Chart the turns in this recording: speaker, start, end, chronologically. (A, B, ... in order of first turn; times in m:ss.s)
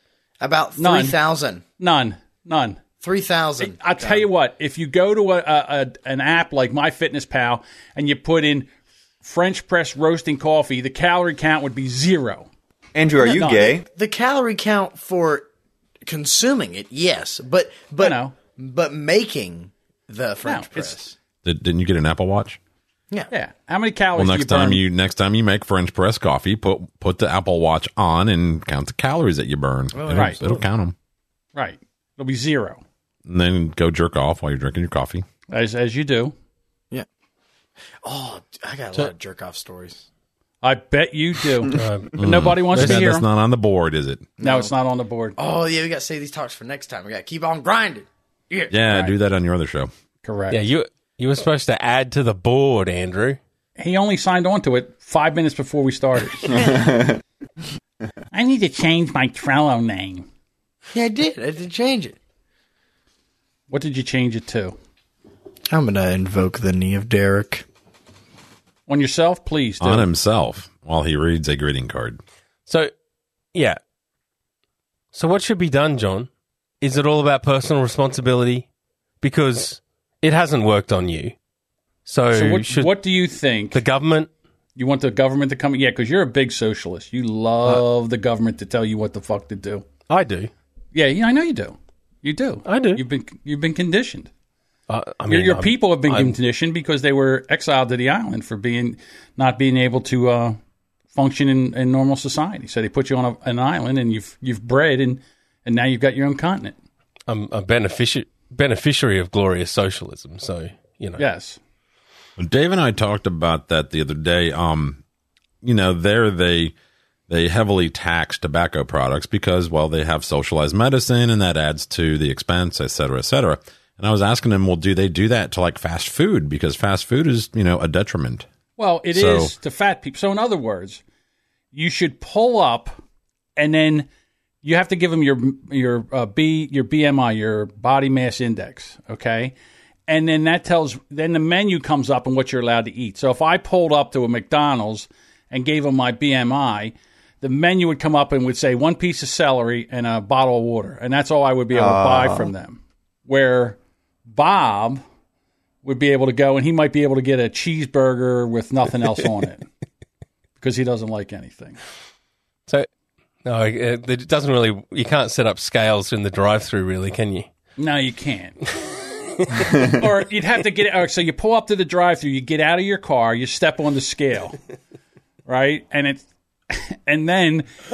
0:00.4-0:01.6 A
0:00.8-0:01.2 B
0:01.8-0:02.8 B
0:03.0-0:04.2 A
0:03.6-0:08.7 B
0:09.2-0:12.5 B
0:12.9-0:13.8 C
0:13.2-0:13.8 B
0:13.8-0:15.5 A
0:16.0-0:21.1 A
0:18.0-0:18.3 B
0:20.4-0:21.0 B
0:21.4-0:22.6 D
0:23.3-0:24.8 B
0:24.1-0:30.9 D
0:29.9-0:30.6 A
0:30.1-0:30.4 B
0:31.6-0:32.8 B
0:33.2-0:35.2 D
0:35.5-0:36.3 B
0:38.0-0:40.0 A
0:40.6-0:43.2 B
0:41.7-0:43.0 E
0:42.2-0:44.3 D
0:44.4-0:44.7 A
0:44.4-0:45.4 B
0:45.4-0:48.7 A
0:48.7-0:49.9 D
0:50.2-0:50.6 B
0:50.5-0:53.4 E
0:53.8-0:56.5 B
0:56.5-0:57.2 C
0:58.3-1:00.2 B
1:00.9-1:02.2 A
1:03.7-1:04.8 B
1:05.7-1:07.6 A
1:08.9-1:10.1 B
1:09.8-1:12.2 D
1:12.7-1:12.9 E
1:13.5-1:13.8 E
1:15.1-1:16.3 E
1:16.8-1:18.7 E
1:19.2-1:21.4 E
1:22.0-1:22.9 E
1:22.3-1:23.8 B
1:23.7-1:24.3 E
1:24.8-1:29.8 B
1:30.1-1:30.5 E
1:30.9-1:34.3 B
1:32.6-1:33.0 E
1:34.9-1:36.4 E
1:35.3-1:40.6 B
1:41.1-1:46.8 B
1:47.3-1:51.2 E
1:51.2-1:51.6 B
1:52.4-1:55.0 D
1:55.6-1:56.7 D
1:57.3-2:08.4 D
2:08.8-2:11.0 B
2:09.1-2:09.5 D
2:11.7-2:12.9 B
2:13.6-2:14.1 B
2:14.6-2:19.5 B
2:20.1-2:33.8 B
2:31.7-2:32.5 C
2:34.3-2:35.0 B
2:35.8-2:39.7 B
2:40.6-2:41.8 B
2:43.4-2:47.5 E
2:47.8-2:48.6 B
2:49.8-2:54.6 B
2:55.4-2:57.7 B